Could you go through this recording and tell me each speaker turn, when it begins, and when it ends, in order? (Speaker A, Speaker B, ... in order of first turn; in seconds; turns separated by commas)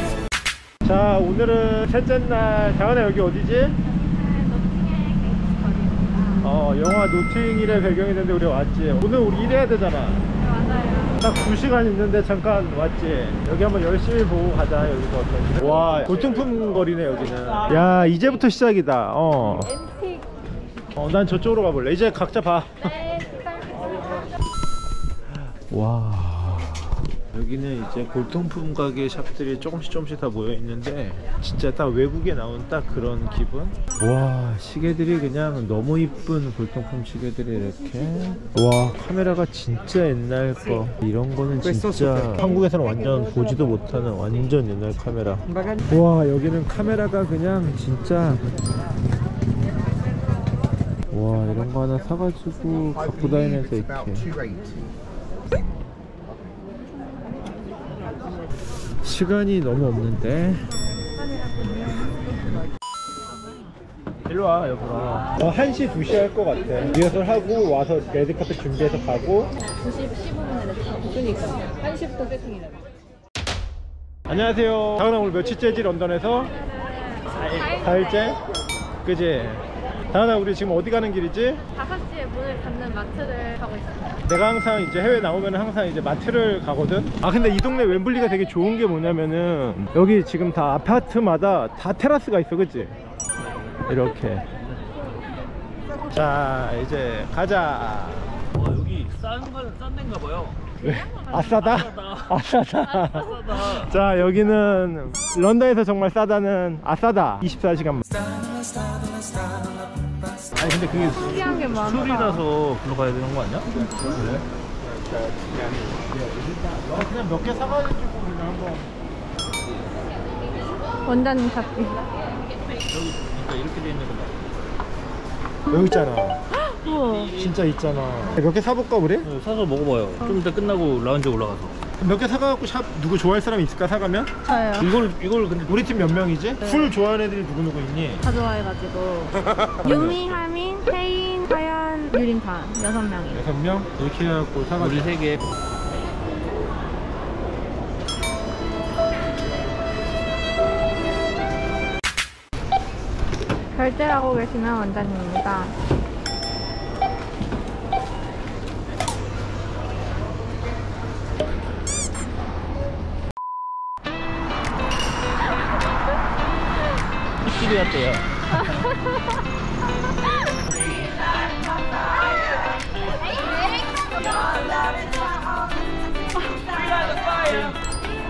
Speaker A: 0.8-3.8, Speaker B: 3.9-6.5, Speaker A: 6.4-10.2, Speaker B: 10.4-11.2, Speaker A: 11.2-19.8, Speaker A: 20.9-23.0, Speaker B: 23.1-23.4, Speaker A: 25.3-48.5, Speaker A: 51.1-54.3, Speaker A: 59.0-60.7, Speaker A: 64.3-69.5, Speaker B: 69.9-72.5, Speaker A: 74.3-76.5, Speaker B: 76.7-78.3, Speaker A: 77.6-78.4, Speaker A: 79.0-81.6, Speaker B: 81.7-84.2, Speaker A: 84.2-92.9, Speaker A: 93.9-94.5, Speaker A: 96.1-98.3, Speaker C: 98.6-100.6, Speaker A: 100.8-108.0, Speaker C: 108.4-109.7, Speaker A: 110.6-114.4, Speaker B: 111.1-112.5, Speaker A: 116.1-118.9, Speaker B: 121.1-122.1, Speaker C: 122.9-124.5, Speaker A: 125.7-126.4, Speaker B: 126.5-127.4, Speaker A: 127.3-129.3, Speaker C: 129.2-131.8, Speaker A: 132.0-134.3, Speaker B: 134.4-134.9, Speaker C: 134.8-135.7, Speaker A: 135.6-138.3, Speaker B: 136.6-136.9, Speaker B: 138.2-143.4, Speaker A: 139.8-140.5, Speaker A: 143.3-145.1, Speaker C: 144.8-145.4, Speaker B: 153.7-155.8, Speaker C: 167.5-168.2, Speaker B: 168.5-169.3